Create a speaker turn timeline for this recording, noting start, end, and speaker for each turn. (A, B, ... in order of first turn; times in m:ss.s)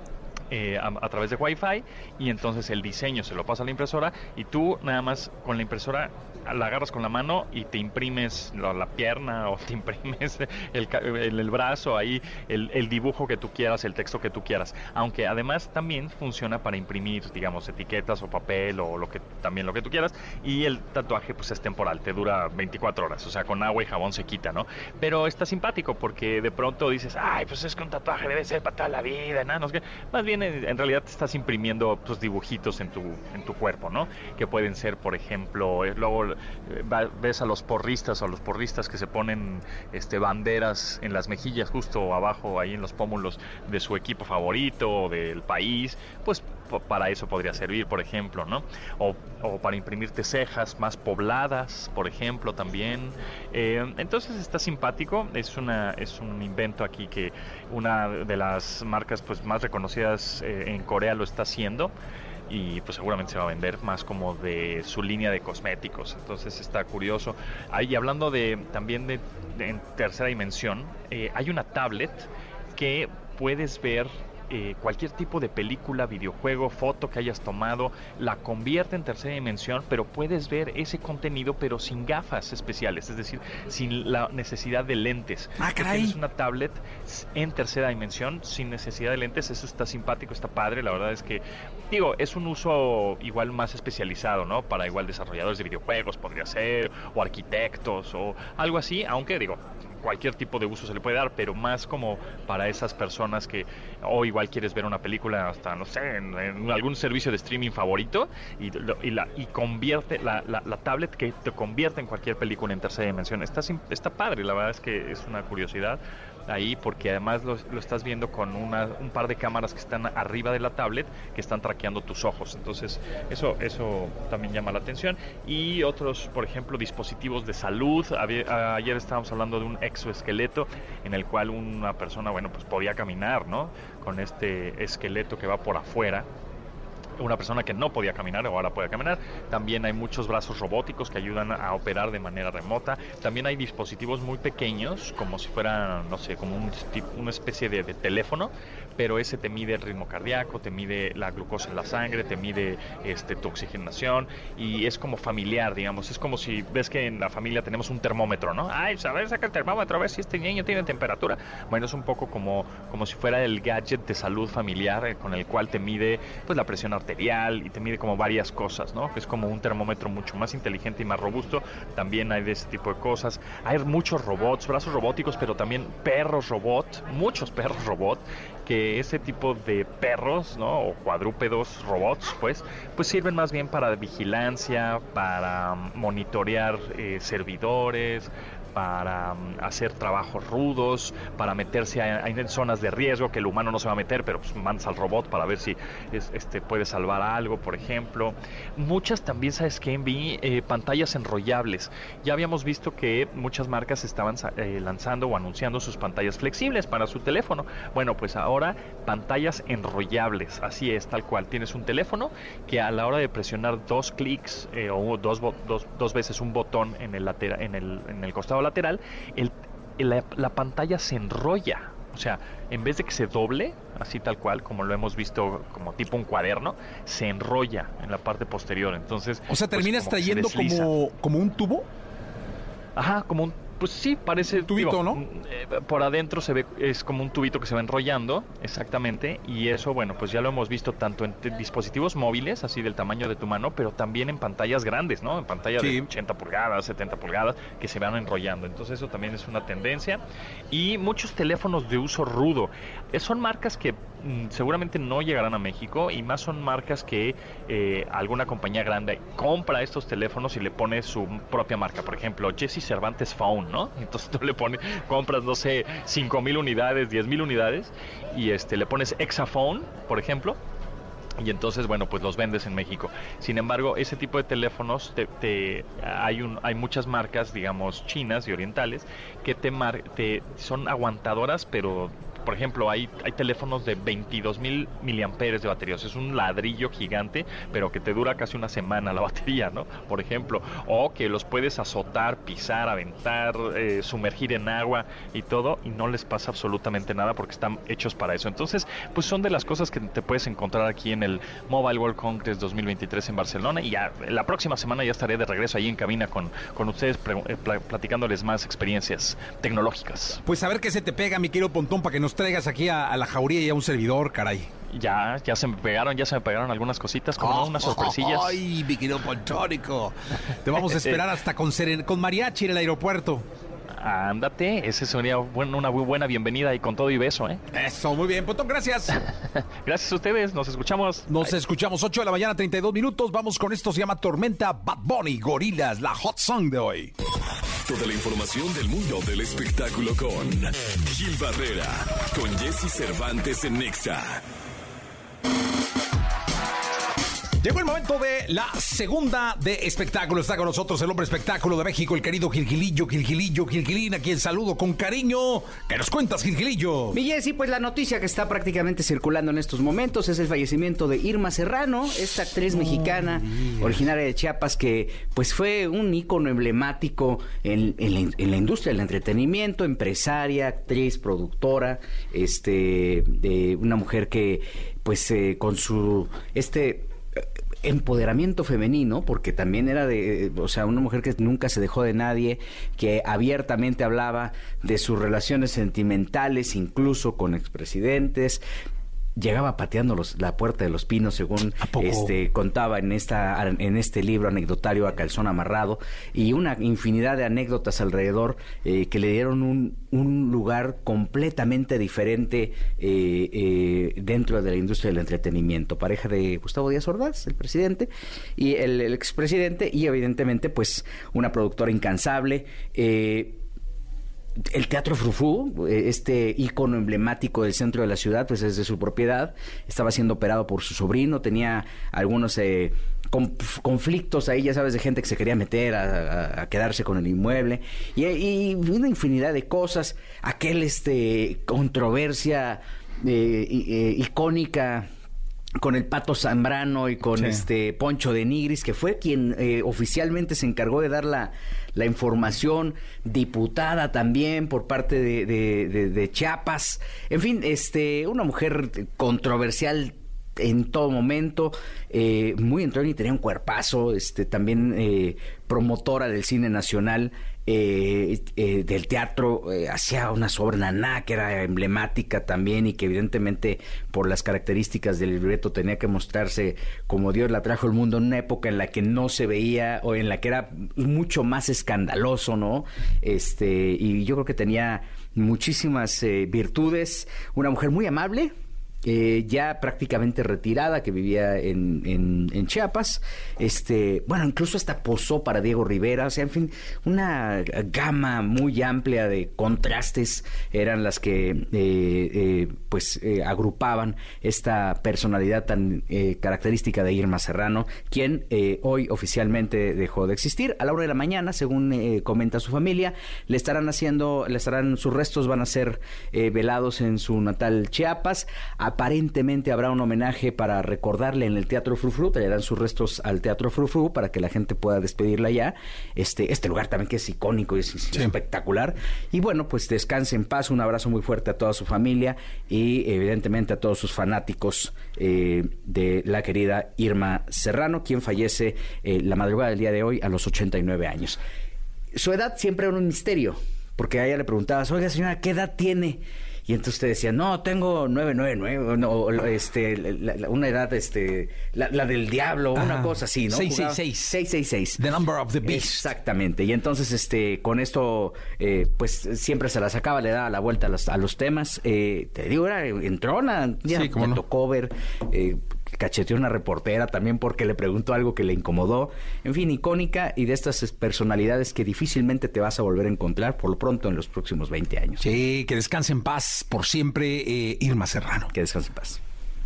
0:00.5-1:01.9 A
1:02.5-2:16.3 A
1:25.6-1:26.2 B
2:17.2-3:50.9 A
3:49.5-3:51.9 B
3:53.0-4:30.6 A
3:54.5-3:55.2 B
4:05.8-4:06.1 B
4:31.4-5:10.4 A
5:10.4-5:14.7 B
5:14.9-5:18.6 A
5:17.4-5:23.4 B
5:20.9-5:21.2 A
5:23.9-5:27.6 A
5:27.7-5:29.2 B
5:29.8-5:31.6 A
5:31.3-5:37.1 B
5:37.8-5:44.4 C
5:47.6-5:57.2 B
5:57.1-6:28.6 D
6:02.7-6:04.0 B
6:29.4-6:53.6 D
6:31.8-6:32.4 B
6:54.6-7:15.1 D
7:15.8-7:58.5 D
7:17.4-7:17.6 B
7:59.0-8:51.4 D
8:52.1-9:05.0 D
9:02.8-9:04.3 B
9:05.0-9:06.1 B
9:05.6-9:25.2 D
9:13.9-9:14.4 B
9:25.2-9:28.5 B
9:28.5-9:29.2 D